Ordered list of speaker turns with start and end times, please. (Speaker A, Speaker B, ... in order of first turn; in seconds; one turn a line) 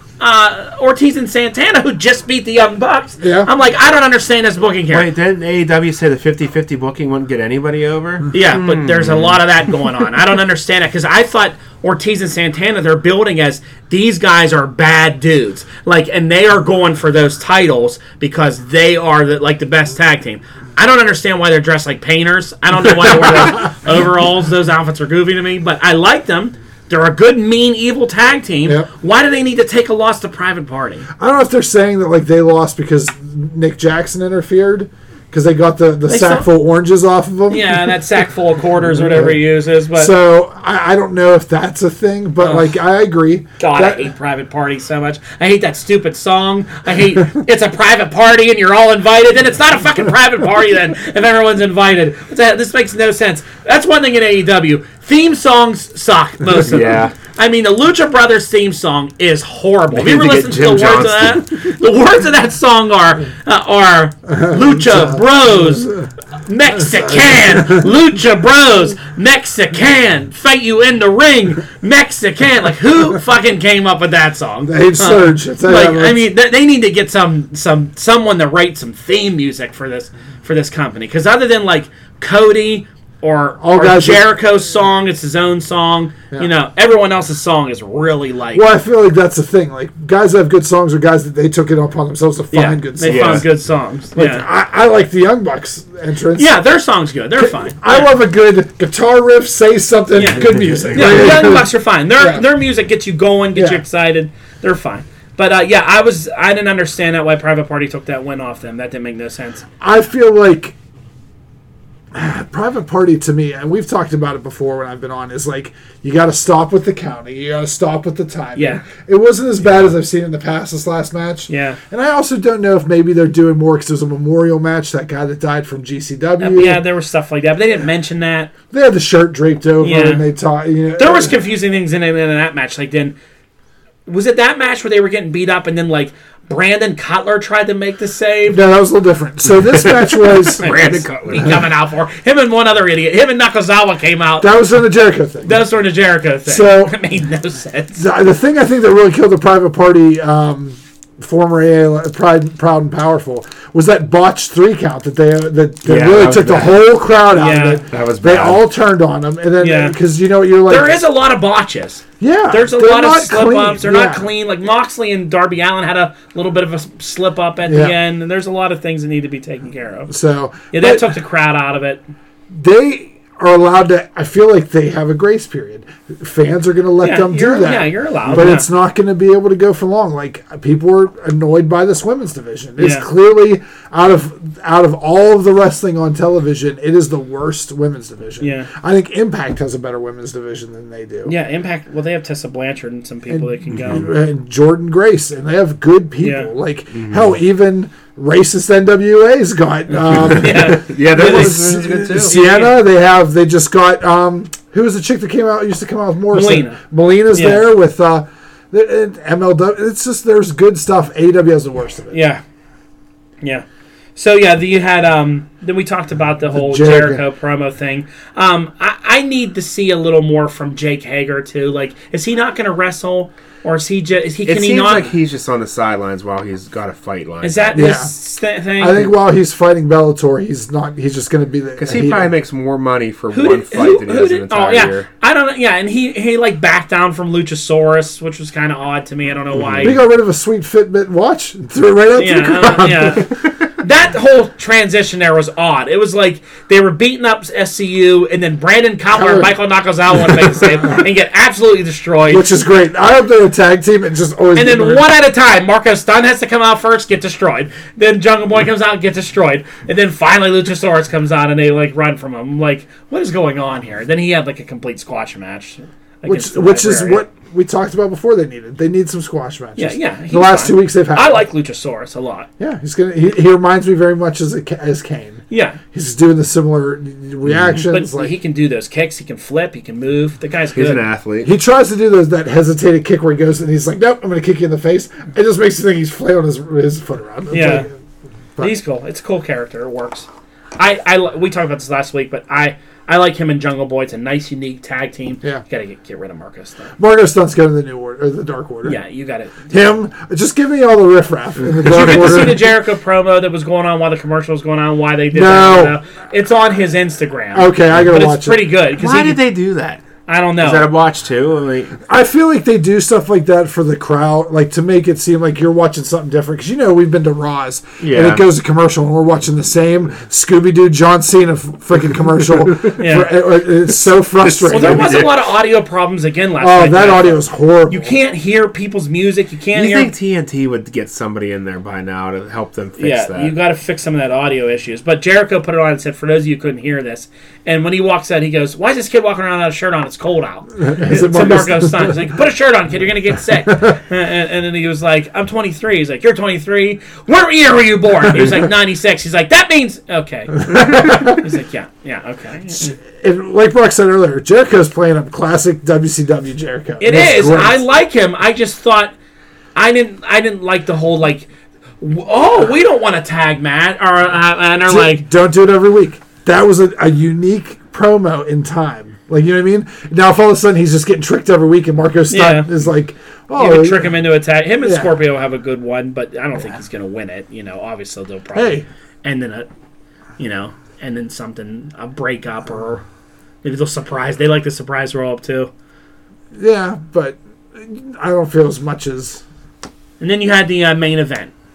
Speaker A: 0.2-5.1
Speaker B: 3.2-3.5
Speaker C: 4.9-9.4
Speaker A: 8.3-31.1
Speaker B: 31.2-38.0
Speaker A: 36.1-36.5
Speaker A: 37.5-40.1
Speaker B: 38.9-44.1
Speaker A: 42.4-42.7
Speaker A: 43.6-88.6
Speaker C: 56.5-57.1
Speaker C: 59.9-61.7
Speaker B: 64.3-66.1
Speaker B: 66.8-67.9
Speaker B: 74.6-76.2
Speaker B: 83.6-84.3
Speaker B: 88.5-93.5
Speaker A: 92.5-94.4
Speaker C: 93.0-93.5
Speaker B: 94.1-96.6
Speaker A: 96.3-98.1
Speaker B: 97.4-102.4
Speaker A: 100.1-109.6
Speaker C: 100.8-101.2
Speaker B: 103.5-103.8
Speaker B: 109.8-110.7
Speaker B: 112.1-126.8
Speaker A: 118.5-118.8
Speaker A: 121.5-121.8
Speaker A: 126.4-128.5
Speaker B: 128.7-131.4
Speaker A: 129.8-130.2
Speaker A: 131.0-133.1
Speaker A: 134.1-138.6
Speaker B: 138.5-140.7
Speaker C: 139.8-141.6
Speaker A: 140.6-144.5
Speaker B: 144.4-145.6
Speaker A: 145.4-148.1
Speaker B: 146.4-147.0
Speaker B: 148.0-161.0
Speaker C: 155.8-156.9
Speaker A: 157.4-157.8
Speaker C: 157.9-158.6
Speaker A: 159.6-160.0
Speaker A: 160.7-170.1
Speaker B: 162.2-164.3
Speaker B: 167.7-168.0
Speaker B: 170.1-171.2
Speaker A: 170.7-172.0
Speaker B: 172.5-191.3
Speaker A: 177.0-178.7
Speaker A: 182.8-183.1
Speaker A: 188.4-188.7
Speaker A: 191.2-194.1
Speaker B: 193.3-212.2
Speaker A: 196.2-196.5
Speaker C: 196.9-197.2
Speaker C: 200.1-202.4
Speaker A: 200.1-202.8
Speaker A: 206.3-206.8
Speaker A: 207.3-207.7
Speaker A: 212.1-212.4
Speaker A: 214.2-225.1
Speaker B: 216.5-217.2
Speaker C: 224.4-227.8
Speaker A: 227.4-229.1
Speaker B: 227.7-228.1
Speaker B: 228.8-232.3
Speaker C: 231.8-235.1
Speaker A: 233.3-240.0
Speaker C: 239.6-239.9
Speaker B: 239.8-243.3
Speaker A: 242.1-252.4
Speaker B: 249.1-249.5
Speaker B: 250.6-251.0
Speaker B: 252.3-255.0
Speaker A: 254.5-267.2
Speaker B: 266.2-271.4
Speaker A: 269.8-272.5
Speaker B: 272.6-278.4
Speaker A: 275.5-275.8
Speaker C: 277.4-277.7
Speaker A: 277.9-281.0
Speaker C: 280.7-281.5
Speaker B: 281.4-287.9
Speaker A: 287.5-287.9
Speaker A: 288.6-290.3
Speaker A: 290.8-296.9
Speaker B: 297.0-299.0
Speaker A: 298.8-299.6
Speaker B: 299.7-302.7
Speaker A: 301.8-309.4
Speaker B: 305.3-305.9
Speaker B: 307.5-308.7
Speaker C: 308.9-310.0
Speaker A: 310.2-310.9
Speaker C: 310.6-312.0
Speaker B: 312.1-325.2
Speaker C: 318.0-318.4
Speaker A: 323.0-323.3
Speaker C: 324.4-325.4
Speaker A: 324.7-330.1
Speaker B: 326.6-328.1
Speaker C: 329.7-333.5
Speaker A: 333.0-352.9
Speaker B: 340.8-342.2
Speaker B: 350.6-351.4
Speaker B: 353.0-357.8
Speaker A: 357.0-359.1
Speaker C: 357.1-357.6
Speaker A: 359.7-361.5
Speaker A: 362.0-365.2
Speaker B: 364.9-374.2
Speaker A: 372.3-372.7
Speaker A: 373.5-379.7
Speaker B: 374.8-375.1
Speaker B: 378.5-378.9
Speaker A: 380.4-383.0
Speaker A: 383.6-385.7
Speaker B: 386.5-389.4
Speaker A: 390.2-391.5